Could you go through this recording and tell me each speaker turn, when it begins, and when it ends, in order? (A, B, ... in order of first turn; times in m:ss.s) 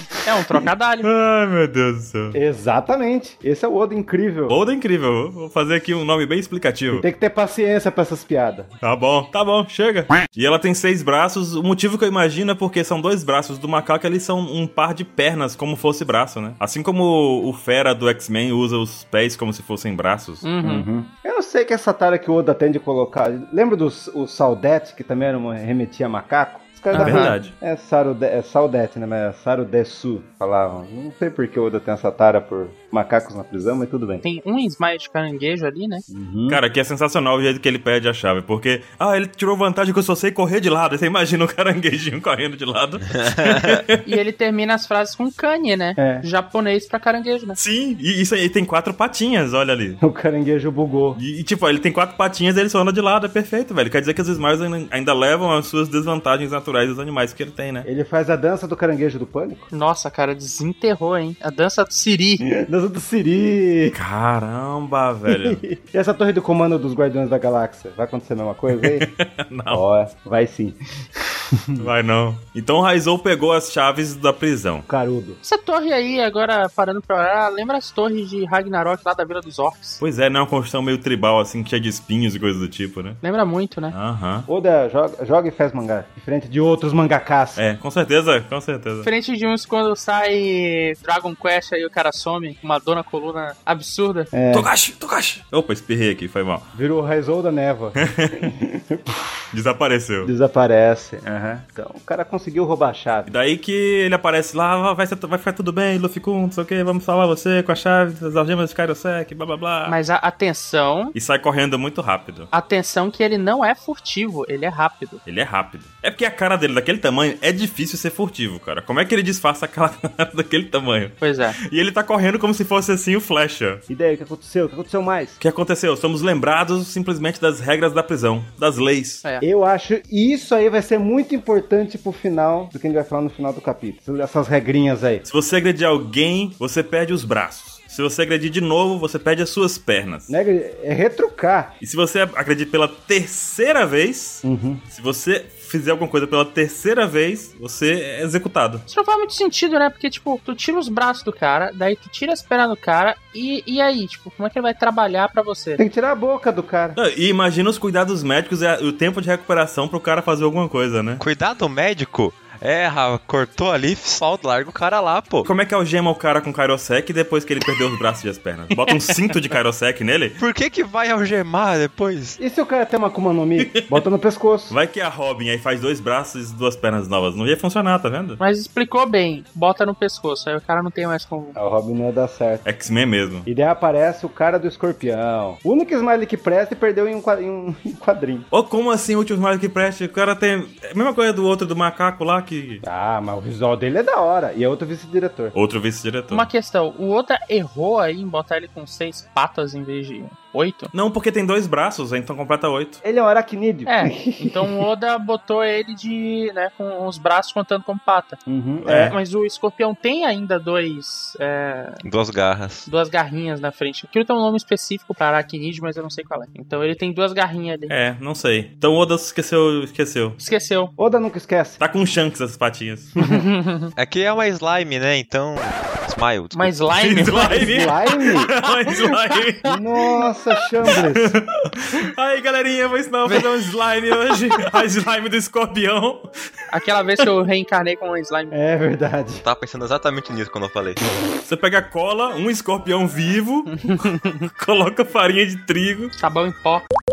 0:00.2-0:01.1 A
0:01.0-0:02.4 B
0:02.3-0:04.6 C
0:04.5-0:07.0 B
0:06.9-0:08.7 C
0:08.8-0:20.4 B
0:20.4-0:20.9 A
0:20.6-0:34.2 C
0:26.9-0:27.4 A
0:26.9-0:27.5 B
0:34.2-0:36.0 A
0:36.1-0:36.6 C
0:36.5-0:44.0 B
0:43.3-0:43.6 D
0:44.0-0:47.6 A
0:46.0-0:46.2 C
0:47.6-0:50.0 B
0:50.0-0:51.2 C
0:51.2-0:57.9 B
0:57.8-0:59.7 C
0:59.7-1:02.4 A
1:02.4-1:04.0 C
1:03.9-1:05.6 B
1:05.3-1:09.1 C
1:08.7-1:09.8 B
1:09.7-1:11.9 C
1:11.8-1:14.9 B
1:14.9-1:15.4 C
1:15.4-1:20.0 A
1:20.0-1:23.2 B
1:23.2-1:23.9 A
1:23.9-1:24.5 B
1:24.5-1:27.6 C
1:27.6-1:29.1 B
1:29.0-1:34.3 A
1:34.3-1:34.7 C
1:34.5-1:36.6 B
1:36.7-1:39.4 C
1:38.0-1:38.5 B
1:39.5-1:40.3 B
1:40.2-1:43.3 C
1:43.3-1:50.0 B
1:49.9-1:51.1 A
1:51.1-1:52.5 B
1:52.5-1:55.2 A
1:55.2-2:03.8 B
2:01.2-2:01.6 A
2:03.9-2:05.4 C
2:05.4-2:09.2 B
2:09.4-2:15.2 C
2:15.2-2:20.3 B
2:20.3-2:21.7 C
2:21.8-2:28.8 B
2:24.4-2:24.8 C
2:28.9-2:35.8 A
2:35.8-2:37.0 C
2:37.0-2:41.2 B
2:41.2-2:45.5 D
2:45.4-2:50.4 B
2:48.9-2:49.2 A
2:50.4-2:52.4 D
2:52.4-2:54.7 C
2:53.6-2:54.0 B
2:54.7-2:58.4 B
2:58.4-3:01.6 A
3:01.5-3:02.6 C
3:02.6-3:03.5 B
3:03.4-3:08.5 C
3:08.5-3:12.8 B
3:12.8-3:15.5 C
3:15.5-3:16.5 B
3:16.3-3:20.9 A
3:20.9-3:23.0 B
3:23.0-3:24.8 C
3:23.8-3:28.4 A
3:28.4-3:29.1 C
3:28.8-3:29.1 B
3:28.9-3:32.0 A
3:32.0-3:32.9 D
3:32.8-3:37.9 A
3:37.9-3:40.4 B
3:40.4-3:40.9 A
3:41.0-3:41.8 C
3:41.8-3:43.1 B
3:43.2-3:43.9 A
3:44.0-3:46.7 D
3:46.5-3:47.9 A
3:47.0-3:49.7 B
3:47.4-3:48.5 C
3:48.6-3:49.4 A
3:49.6-3:51.4 C
3:50.8-3:56.3 B
3:56.7-3:58.5 A
3:58.5-3:59.4 C
3:59.4-4:01.0 D
4:01.4-4:06.1 B
4:03.8-4:04.4 A
4:06.2-4:06.9 A